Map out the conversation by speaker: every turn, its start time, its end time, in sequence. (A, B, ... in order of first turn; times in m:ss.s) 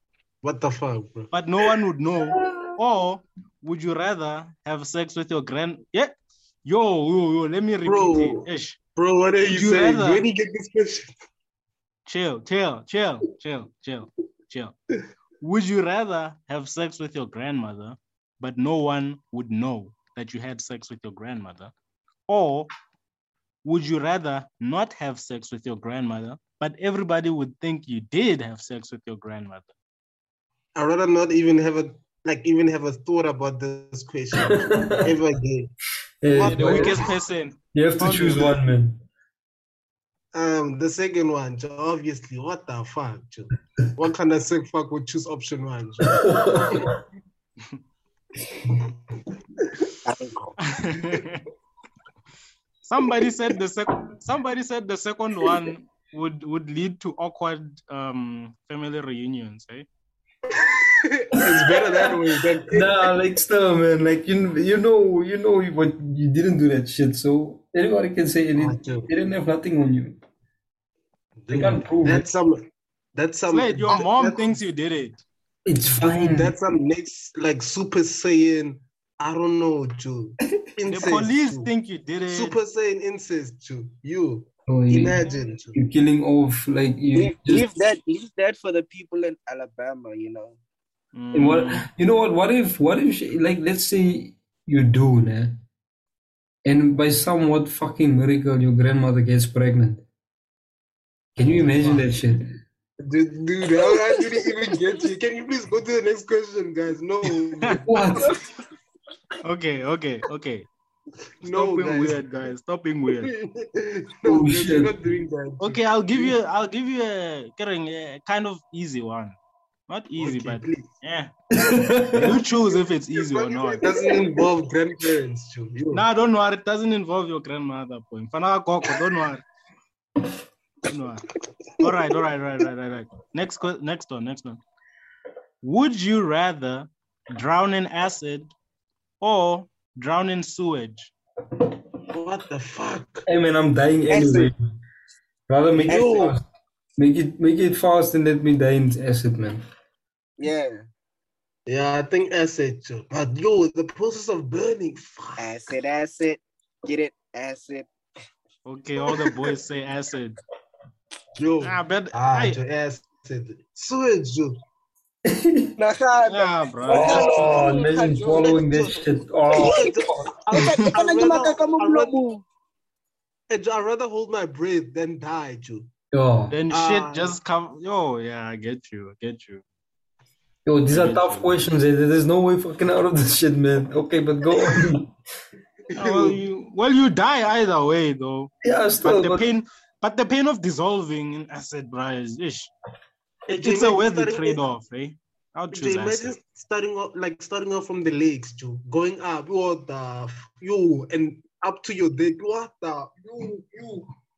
0:00.4-0:01.3 A
0:01.3-0:06.1 B
0:02.3-0:02.7 C
0:06.6-0:08.8 B
0:07.8-0:11.1 A
0:09.5-0:10.2 B
0:12.0-0:14.7 B
0:15.4-0:21.7 B
0:22.3-0:22.7 B
0:23.6-0:29.7 B
0:30.7-0:35.7 A
0:34.4-0:35.1 C
0:36.2-0:37.1 C
0:36.3-0:37.1 A
0:36.4-0:38.6 B
0:37.7-0:39.0 C
0:40.3-0:46.9 A
0:46.1-0:47.0 C
0:50.0-0:50.6 D
0:50.6-0:51.4 B
0:52.8-0:59.9 B
1:00.5-1:03.1 A
1:01.4-1:01.8 C
1:02.7-1:10.2 C
1:08.6-1:09.1 A
1:11.4-1:12.6 A
1:11.5-1:12.2 C
1:13.1-1:14.6 A
1:13.5-1:15.2 B
1:15.6-1:16.5 C
1:15.9-1:21.7 A
1:20.9-1:22.5 B
1:22.3-1:25.7 A
1:24.7-1:25.2 C
1:25.7-1:27.7 C
1:27.1-1:30.6 D
1:31.1-1:31.8 B
1:31.3-1:35.6 C
1:36.6-1:40.0 C
1:41.4-1:42.6 C
1:41.5-1:42.0 B
1:43.0-1:48.2 A
1:47.9-1:48.4 C
1:49.4-1:50.7 B
1:51.4-1:52.2 A
1:51.4-1:53.3 B
1:53.2-1:56.4 A
1:54.2-1:54.9 C
1:55.6-1:59.4 B
1:59.9-2:01.3 B
2:00.2-2:00.8 A
2:01.6-2:02.4 C
2:02.1-2:03.9 B
2:03.2-2:06.0 A
2:05.9-2:09.4 B
2:10.8-2:14.6 B
2:15.6-2:18.5 B
2:19.2-2:21.1 B
2:22.1-2:23.2 A
2:23.2-2:24.6 C
2:24.1-2:24.5 D
2:25.5-2:26.4 C
2:25.8-2:26.4 A
2:25.9-2:26.3 D
2:27.0-2:29.6 C
2:30.4-2:30.8 D
2:31.7-2:35.4 A
2:35.4-2:37.9 D
2:38.6-2:40.4 B
2:41.4-2:44.6 A
2:41.6-2:42.6 B
2:45.3-2:45.7 C
2:45.8-2:48.6 D
2:46.3-2:47.4 B
2:46.8-2:50.4 C
2:47.2-2:47.6 A
2:48.3-2:52.1 A
2:49.5-2:49.9 D
2:50.5-2:52.4 D
2:53.5-2:55.9 A
2:56.1-2:56.5 C
2:56.5-2:59.6 B
2:56.7-2:57.4 A
3:00.6-3:05.1 C
3:00.9-3:01.5 B
3:05.9-3:06.4 A
3:06.0-3:12.7 B
3:08.6-3:09.5 C
3:13.5-3:14.6 A
3:13.5-3:16.4 B
3:15.7-3:24.1 A